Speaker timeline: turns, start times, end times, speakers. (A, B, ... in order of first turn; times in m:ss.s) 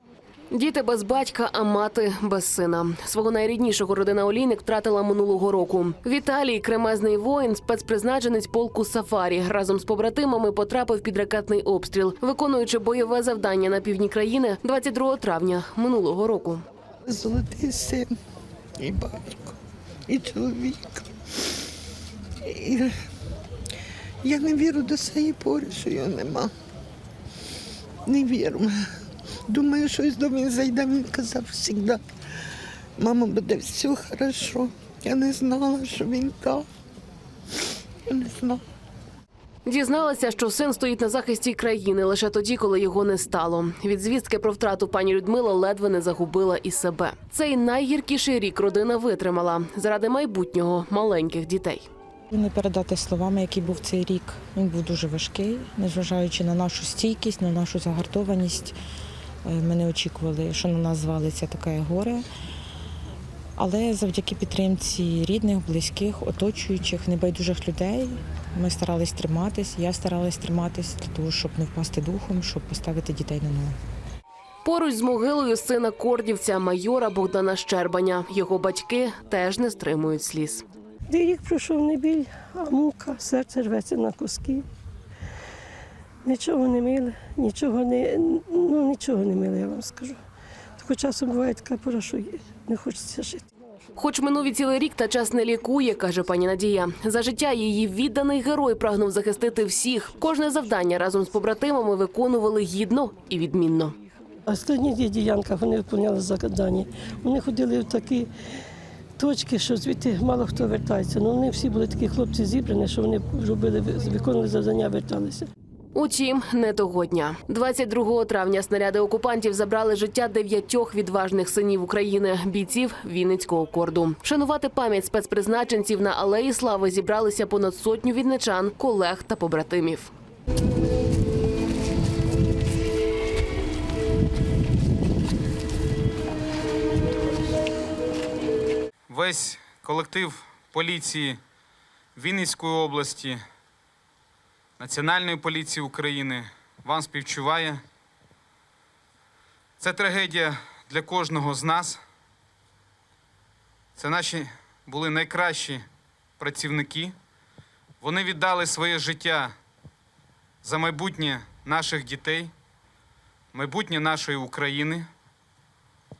0:00.5-0:16.6 A
0:17.1-0:18.1 B
0:18.8-0:19.5 B
0:20.1-0:21.0 B
0:22.4-0:23.0 B
0:24.2-0:26.5 B
0:28.0-0:32.0 B
0:33.0-0:36.7 B
0:38.1-0:38.6 B
0:39.6-0:51.9 A
0:52.3-0:58.8 C
0:59.4-1:02.2 C
1:03.6-1:13.8 C
1:14.6-1:20.6 A
1:21.1-1:24.6 D
1:26.2-1:30.2 D
1:30.8-1:33.4 D
1:34.0-1:43.9 A
1:44.5-1:48.3 D
1:49.2-1:55.5 D
1:55.9-2:10.1 A
2:19.1-2:21.4 E
2:22.2-2:23.4 E
2:24.8-2:27.8 E
2:29.8-2:32.0 E
2:34.0-2:35.8 E
2:36.4-2:37.1 E
2:38.0-2:39.5 E
2:40.6-2:42.5 E
2:43.5-2:45.0 E